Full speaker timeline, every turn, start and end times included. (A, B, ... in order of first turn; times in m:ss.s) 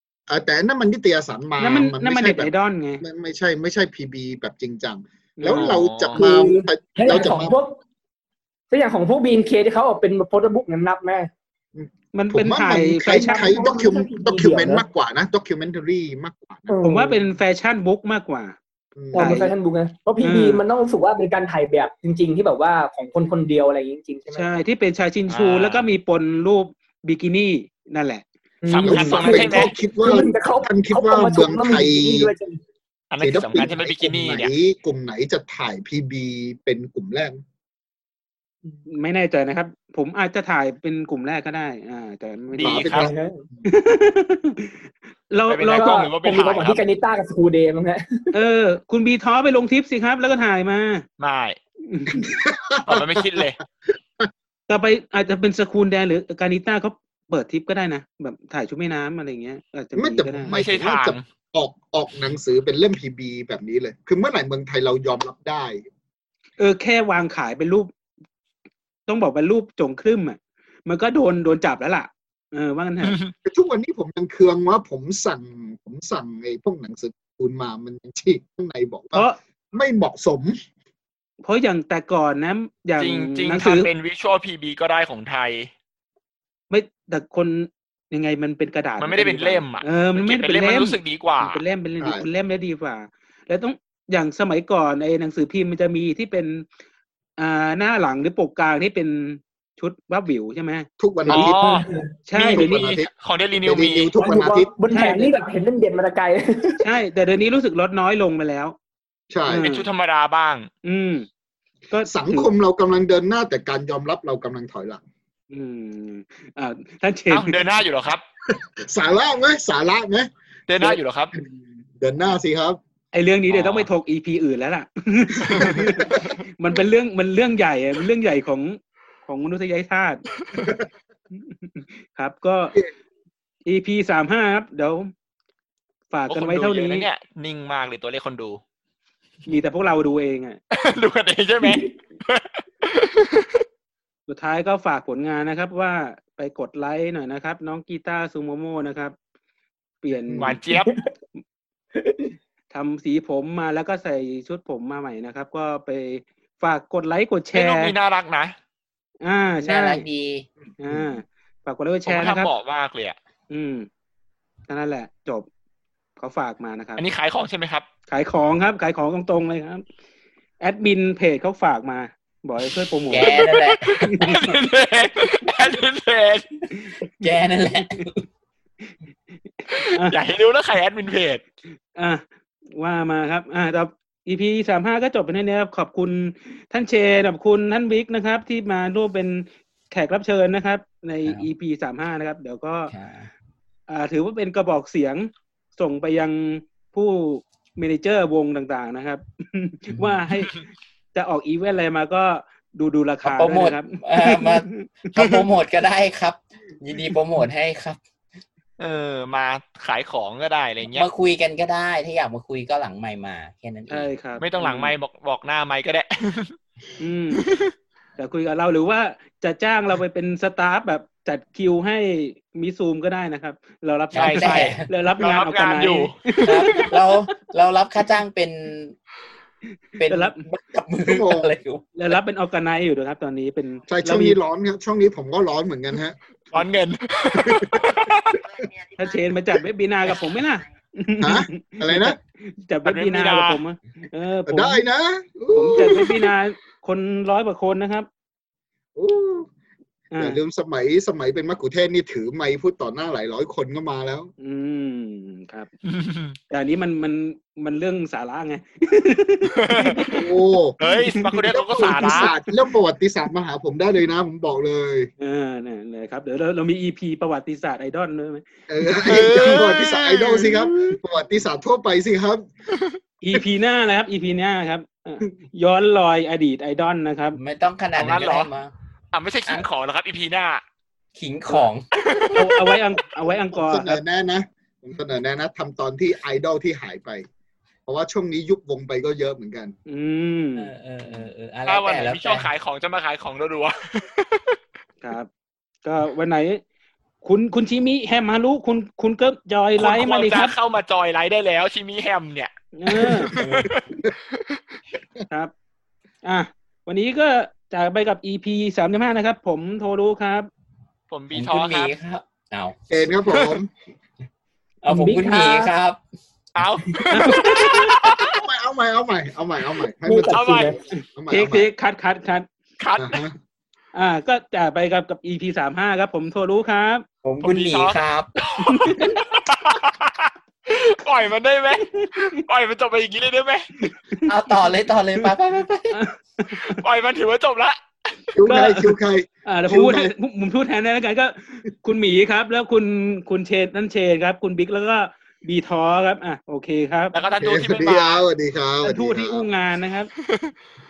0:00.3-0:07.6 A
0:01.6-0:03.0 B
0:05.4-0:05.8 B
0:05.5-0:06.3 C
0:06.2-0:07.8 D
0:08.7-0:11.3 D
0:11.8-0:16.8 A
0:12.1-0:13.6 B
0:13.0-0:14.8 D
0:16.7-0:17.2 D
0:16.8-0:18.6 B
0:19.0-0:19.4 A
0:19.1-0:24.5 D
0:19.2-0:19.5 B
0:20.2-0:20.6 B
0:24.3-0:28.2 B
0:25.3-0:25.9 C
0:28.6-0:32.6 D
0:28.7-0:29.7 C
0:28.8-0:32.3 A
0:33.1-0:34.5 C
0:33.2-0:37.4 A
0:38.9-0:42.9 B
0:42.6-0:43.1 C
0:42.6-0:43.6 A
0:43.0-0:43.4 D
0:43.6-0:44.8 B
0:45.3-0:46.0 B
0:45.5-0:46.8 C
0:45.7-0:48.3 D
0:48.3-0:51.0 B
0:51.2-0:51.6 C
0:51.9-0:52.3 B
0:52.1-0:53.6 A
0:52.9-0:53.6 C
0:54.7-1:00.6 B
1:00.0-1:05.8 A
1:00.5-1:01.2 C
1:06.6-1:07.9 B
1:09.1-1:13.2 B
1:13.0-1:13.3 C
1:13.4-1:20.6 A
1:21.4-1:23.9 B
1:23.0-1:25.7 C
1:26.7-1:36.7 B
1:29.0-1:31.6 C
1:37.4-1:40.9 B
1:41.0-1:41.8 A
1:41.3-1:41.9 C
1:41.4-1:42.1 D
1:42.3-1:43.0 B
1:42.3-1:44.7 A
1:42.5-1:44.1 C
1:44.2-1:46.9 D
1:44.9-1:45.4 B
1:46.8-1:48.8 B
1:49.3-1:49.7 A
1:49.5-1:49.9 B
1:49.6-1:50.7 C
1:50.8-1:51.3 B
1:51.9-1:52.5 B
1:52.1-1:55.0 A
1:55.5-1:57.6 B
1:57.3-1:58.2 C
1:58.5-2:02.8 A
2:00.7-2:01.3 C
2:03.1-2:10.2 B
2:03.5-2:03.9 C
2:05.5-2:06.3 C
2:05.5-2:06.3 A
2:10.6-2:10.8 A
2:11.4-2:12.8 B
2:13.7-2:15.1 B
2:16.1-2:17.1 B
2:16.3-2:18.6 C
2:19.5-2:20.6 B
2:20.7-2:23.6 C
2:24.3-2:29.2 B
2:30.0-2:30.6 B
2:30.3-2:30.6 A
2:30.4-2:30.9 C
2:30.8-2:31.1 D
2:32.0-2:32.3 D
2:32.7-2:37.9 B
2:37.5-2:38.6 C
2:39.2-2:40.0 B
2:39.6-2:40.5 E
2:40.8-2:42.5 B
2:42.1-2:43.2 C
2:43.5-2:43.9 B
2:44.7-2:45.5 B
2:46.2-2:47.0 B
2:47.0-2:47.9 C
2:48.1-2:49.8 B
2:50.6-2:53.4 B
2:53.1-2:54.5 E
2:53.4-2:56.7 C
2:54.0-2:54.3 B
2:57.2-2:58.2 E
2:59.7-3:00.2 B
2:59.7-3:01.4 C
3:02.0-3:12.9 B
3:12.9-3:13.3 E
3:13.9-3:25.4 B
3:19.9-3:20.3 E
3:23.2-3:28.0 E
3:28.8-3:31.1 C
3:30.9-3:34.1 E
3:33.9-3:34.9 B
3:34.4-3:36.6 C
3:37.0-3:37.4 B
3:37.4-3:37.7 C
3:38.2-3:46.9 B
3:44.1-3:44.9 E
3:44.2-3:46.8 C
3:46.4-3:49.0 E
3:50.0-3:52.2 E
3:50.1-3:50.4 B
3:51.1-3:51.5 A
3:52.0-3:54.4 B
3:53.9-3:56.2 A
3:56.5-3:58.4 C
3:57.5-3:57.9 A
3:59.0-4:04.8 B
4:01.2-4:02.2 A
4:02.8-4:03.6 C
4:04.5-4:06.3 A
4:05.5-4:08.1 B
4:09.0-4:09.5 A
4:10.1-4:10.4 B
4:10.2-4:14.3 A
4:14.4-4:15.7 B
4:15.9-4:16.4 C
4:16.5-4:20.2 B
4:19.6-4:20.2 C
4:20.1-4:20.8 A
4:20.8-4:22.3 C
4:21.5-4:25.1 A
4:25.2-4:28.4 B
4:28.7-4:32.5 A
4:29.0-4:30.7 C
4:33.2-4:37.4 B
4:37.4-4:38.7 E
4:38.0-4:38.5 C
4:39.1-4:40.6 C
4:41.2-4:41.8 E
4:42.0-4:42.5 C
4:42.3-4:44.0 B
4:43.5-4:47.2 A
4:47.9-4:49.8 A
4:49.9-4:50.7 B
4:50.6-4:52.5 E
4:51.7-4:54.6 C
4:55.0-4:55.3 B
4:55.8-4:56.6 B
4:57.2-5:00.6 B
4:59.8-5:04.6 C
5:02.8-5:03.3 B
5:03.4-5:03.7 E
5:06.2-5:10.5 B
5:11.1-5:11.9 C
5:11.3-5:12.8 E
5:12.9-5:13.7 A
5:14.8-5:16.0 E
5:14.9-5:15.7 D
5:16.6-5:18.4 C
5:17.1-5:18.0 B
5:18.0-5:21.7 A
5:20.0-5:20.8 D
5:20.3-5:20.8 C
5:20.9-5:22.5 B
5:22.8-5:23.2 C
5:23.0-5:23.4 A
5:23.9-5:27.1 B
5:27.2-5:28.3 E
5:27.4-5:33.7 C
5:28.7-5:29.1 B
5:28.8-5:29.1 E
5:33.8-5:34.3 B
5:34.2-5:36.0 E
5:35.9-5:36.8 B
5:36.7-5:37.8 C
5:38.3-5:40.1 A
5:38.5-5:47.1 B
5:47.1-5:48.2 C
5:47.4-5:49.5 A
5:48.8-5:50.1 B
5:50.2-5:50.5 C